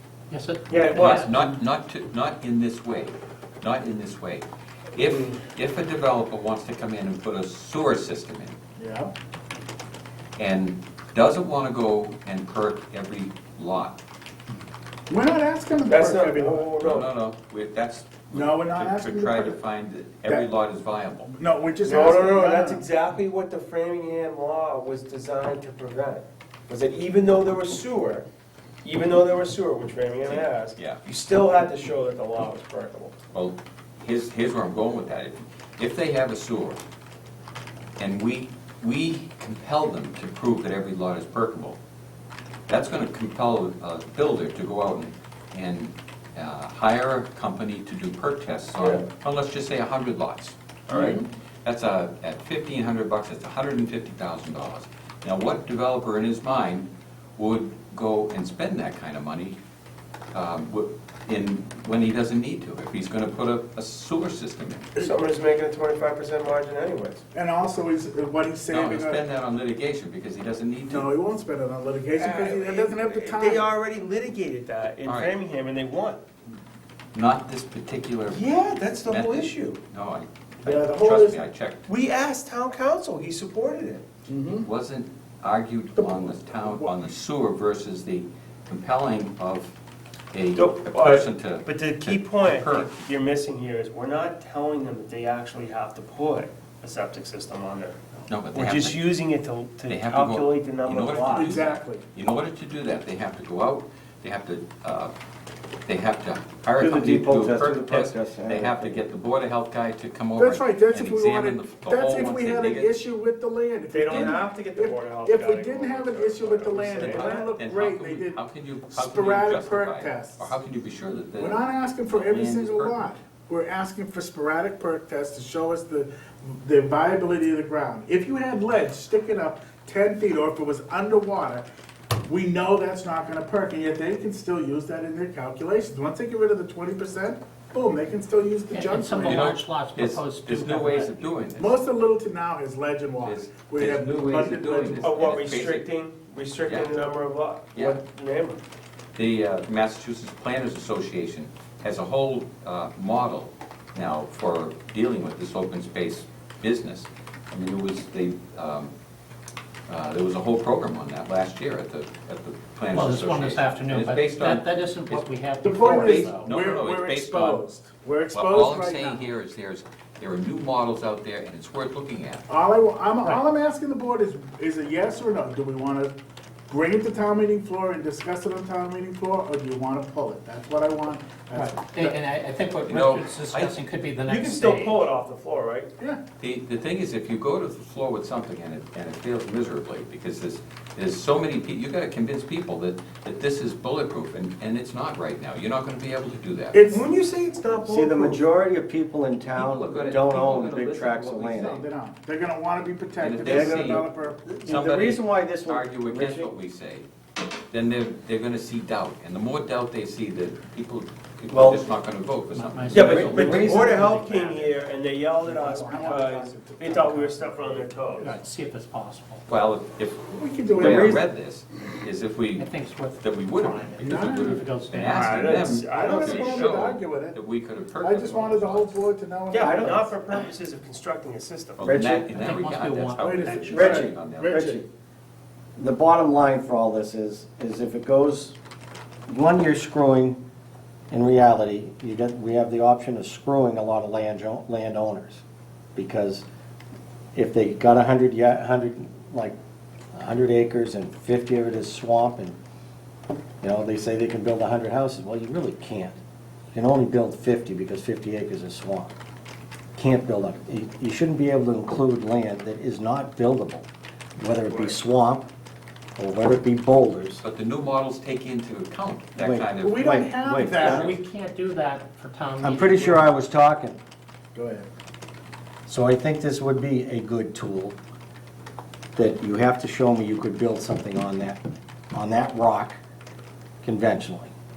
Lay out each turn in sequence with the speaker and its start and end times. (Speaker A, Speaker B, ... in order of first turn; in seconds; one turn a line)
Speaker A: 0.3-1.4
Speaker B: 0.7-1.3
Speaker C: 0.8-8.6
Speaker B: 5.0-5.4
Speaker D: 8.8-9.1
Speaker C: 10.4-14.0
Speaker D: 15.1-16.7
Speaker B: 15.9-17.1
Speaker C: 16.8-21.3
Speaker D: 18.3-19.6
Speaker D: 21.3-22.9
Speaker B: 21.8-28.3
Speaker B: 28.8-33.2
Speaker C: 30.2-31.0
Speaker C: 33.3-36.8
Speaker C: 38.0-41.8
Speaker C: 42.7-59.6
Speaker B: 48.8-49.0
Speaker B: 50.9-51.2
Speaker C: 60.3-64.9
Speaker B: 65.0-67.2
Speaker D: 67.3-69.2
Speaker C: 68.7-71.1
Speaker D: 70.9-73.8
Speaker B: 72.1-76.2
Speaker C: 75.0-75.4
Speaker C: 77.1-78.4
Speaker B: 78.3-79.8
Speaker C: 79.1-81.9
Speaker D: 80.6-81.4
Speaker B: 81.9-84.1
Speaker D: 84.3-84.7
Speaker C: 84.6-89.7
Speaker D: 86.0-87.1
Speaker C: 90.3-93.0
Speaker B: 90.5-98.0
Speaker C: 98.3-99.2
Speaker B: 98.5-101.6
Speaker C: 99.9-105.1
Speaker D: 101.3-102.0
Speaker C: 105.9-113.0
Speaker E: 106.8-109.1
Speaker D: 110.4-120.6
Speaker B: 113.9-117.5
Speaker C: 114.1-114.4
Speaker C: 117.0-123.1
Speaker D: 121.4-131.7
Speaker D: 132.2-139.5
Speaker A: 138.7-141.7
Speaker C: 139.2-141.7
Speaker D: 141.6-145.2
Speaker C: 143.2-145.9
Speaker B: 145.0-148.6
Speaker C: 146.7-147.0
Speaker C: 147.7-148.0
Speaker C: 149.2-158.9
Speaker C: 159.9-167.6
Speaker A: 162.9-166.4
Speaker D: 165.6-169.3
Speaker C: 168.3-172.5
Speaker D: 172.5-176.1
Speaker D: 176.7-182.2
Speaker A: 181.6-185.0
Speaker C: 182.9-183.8
Speaker B: 184.3-185.9
Speaker C: 186.4-196.8
Speaker D: 196.7-197.1
Speaker B: 196.9-198.4
Speaker E: 197.9-201.8
Speaker C: 199.5-201.8
Speaker D: 201.5-204.7
Speaker C: 203.2-204.1
Speaker E: 203.4-206.5
Speaker C: 204.7-207.1
Speaker C: 207.7-213.6
Speaker E: 211.5-211.9
Speaker A: 212.5-214.8
Speaker B: 212.9-218.3
Speaker E: 212.9-214.2
Speaker D: 215.4-218.4
Speaker A: 215.5-216.2
Speaker A: 218.2-219.4
Speaker C: 219.5-222.7
Speaker D: 220.3-221.2
Speaker E: 220.8-221.2
Speaker A: 222.6-225.6
Speaker C: 223.2-229.1
Speaker D: 224.0-224.7
Speaker B: 225.1-226.9
Speaker D: 225.8-227.4
Speaker D: 228.0-230.3
Speaker B: 229.5-232.0
Speaker C: 231.8-234.7
Speaker E: 231.8-232.5
Speaker A: 232.3-233.5
Speaker D: 233.2-234.8
Speaker E: 233.6-234.9
Speaker E: 235.8-238.6
Speaker E: 239.3-240.4
Speaker E: 241.1-245.4
Speaker E: 245.9-246.4
Speaker E: 247.3-249.6
Speaker E: 250.1-252.6
Speaker E: 253.6-256.2
Speaker E: 256.7-259.1
Speaker E: 260.0-263.9
Speaker E: 264.4-265.5
Speaker D: 264.7-265.0
Speaker E: 266.2-267.4
Speaker C: 267.4-270.1
Speaker E: 269.4-271.2
Speaker D: 269.8-271.1
Speaker A: 270.8-273.3
Speaker E: 272.6-274.0
Speaker D: 274.5-274.9
Speaker E: 275.9-278.0
Speaker E: 279.2-281.6
Speaker E: 282.1-283.0
Speaker E: 283.8-284.5